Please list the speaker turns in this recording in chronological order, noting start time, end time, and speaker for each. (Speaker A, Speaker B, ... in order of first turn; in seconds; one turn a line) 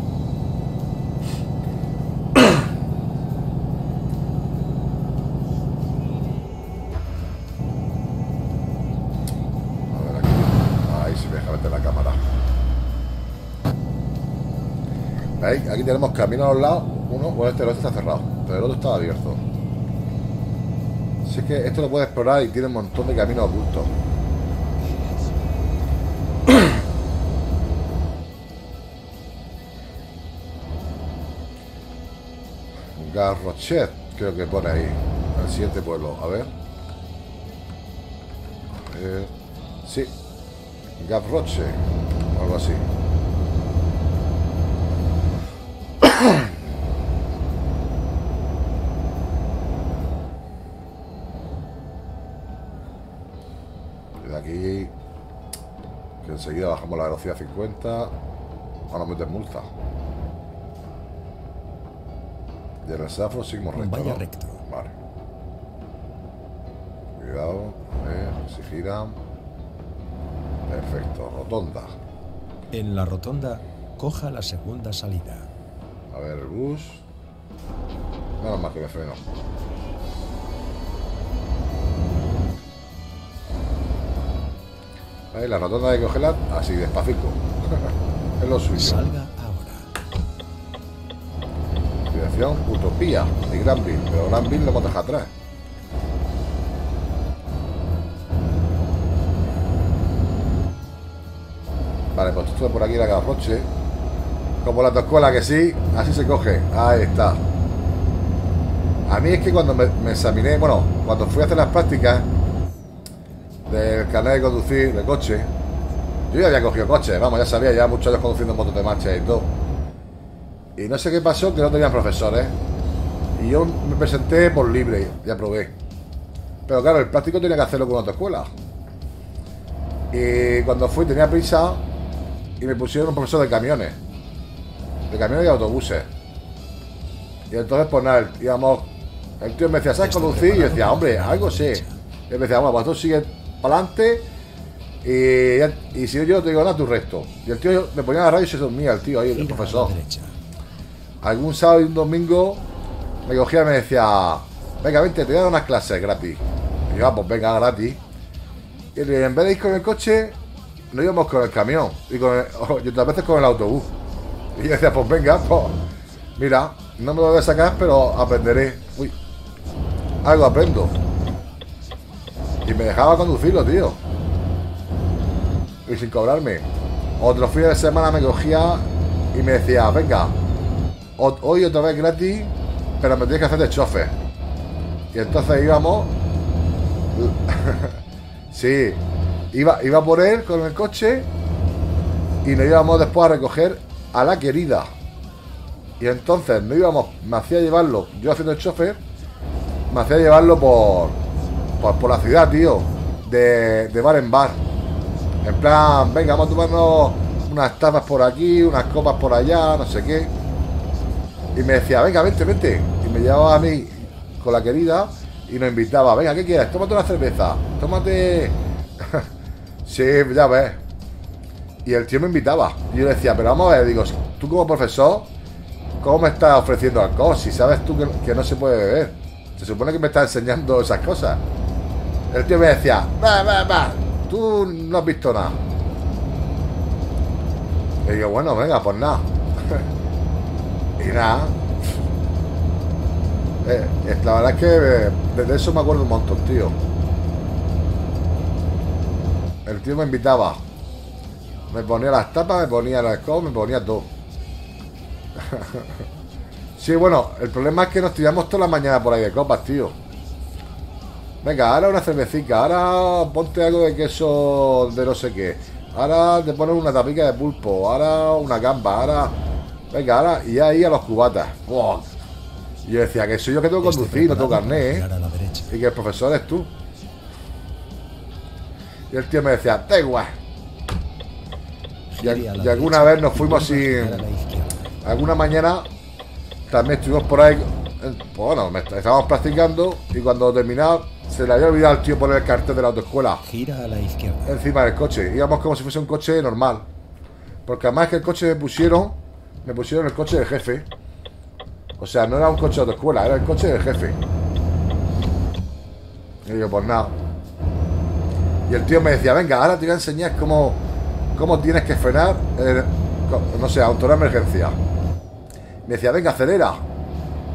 Speaker A: 9.9-12.2
Speaker A: 15.4-19.4
Speaker A: 21.2-23.9
Speaker A: 33.0-36.5
Speaker A: 38.8-39.3
Speaker A: 39.8-40.1
Speaker A: 41.0-41.8
Speaker A: 42.3-42.8
Speaker A: 46.0-46.4
Speaker A: 54.1-54.9
Speaker A: 56.2-58.1
Speaker A: 58.9-59.7
Speaker A: 62.8-64.9
Speaker B: 63.8-64.6
Speaker A: 67.2-69.2
Speaker A: 70.7-71.9
Speaker B: 72.7-75.5
Speaker A: 76.1-77.0
Speaker A: 78.4-79.2
Speaker A: 85.3-87.4
Speaker A: 88.4-89.0
Speaker B: 88.7-89.9
Speaker A: 92.0-95.3
Speaker A: 102.1-103.7
Speaker A: 104.6-107.4
Speaker A: 109.0-112.3
Speaker A: 113.7-115.5
Speaker A: 116.3-119.5
Speaker A: 120.8-122.5
Speaker A: 123.3-125.7
Speaker A: 126.7-128.5
Speaker A: 130.1-131.8
Speaker A: 132.6-134.0
Speaker A: 135.1-136.1
Speaker A: 137.5-144.3
Speaker B: 140.0-141.9
Speaker A: 145.0-149.9
Speaker B: 149.3-150.4
Speaker A: 151.2-152.6
Speaker A: 153.2-158.0
Speaker A: 158.9-160.4
Speaker A: 160.9-163.9
Speaker A: 164.5-165.8
Speaker A: 166.3-169.1
Speaker A: 170.2-171.0
Speaker A: 172.6-174.0
Speaker A: 175.8-176.7
Speaker A: 177.2-180.3
Speaker A: 181.2-184.1
Speaker A: 185.1-186.1
Speaker A: 187.1-188.0
Speaker A: 188.5-191.3
Speaker A: 192.4-194.9
Speaker A: 196.0-199.0
Speaker A: 199.9-201.2
Speaker A: 201.8-204.6
Speaker A: 205.4-210.3
Speaker A: 211.5-219.3
Speaker A: 219.8-220.8
Speaker A: 221.8-225.3
Speaker A: 226.0-231.4
Speaker A: 232.3-235.6
Speaker A: 238.0-239.8
Speaker A: 241.0-241.6
Speaker A: 243.6-246.8
Speaker A: 249.6-250.6
Speaker A: 251.7-254.1
Speaker A: 255.4-256.0
Speaker A: 256.8-260.0
Speaker A: 261.4-269.4
Speaker A: 269.9-272.1
Speaker A: 272.8-275.0
Speaker B: 273.8-275.7
Speaker A: 275.7-276.7
Speaker A: 279.1-280.4
Speaker B: 282.1-284.9
Speaker A: 282.2-284.2
Speaker A: 285.0-285.9
Speaker A: 286.7-293.4
Speaker B: 293.4-294.5
Speaker A: 294.4-296.9
Speaker A: 297.6-300.9
Speaker A: 302.0-304.2
Speaker A: 306.4-307.1
Speaker A: 308.7-310.8
Speaker A: 311.3-314.8
Speaker A: 315.8-316.8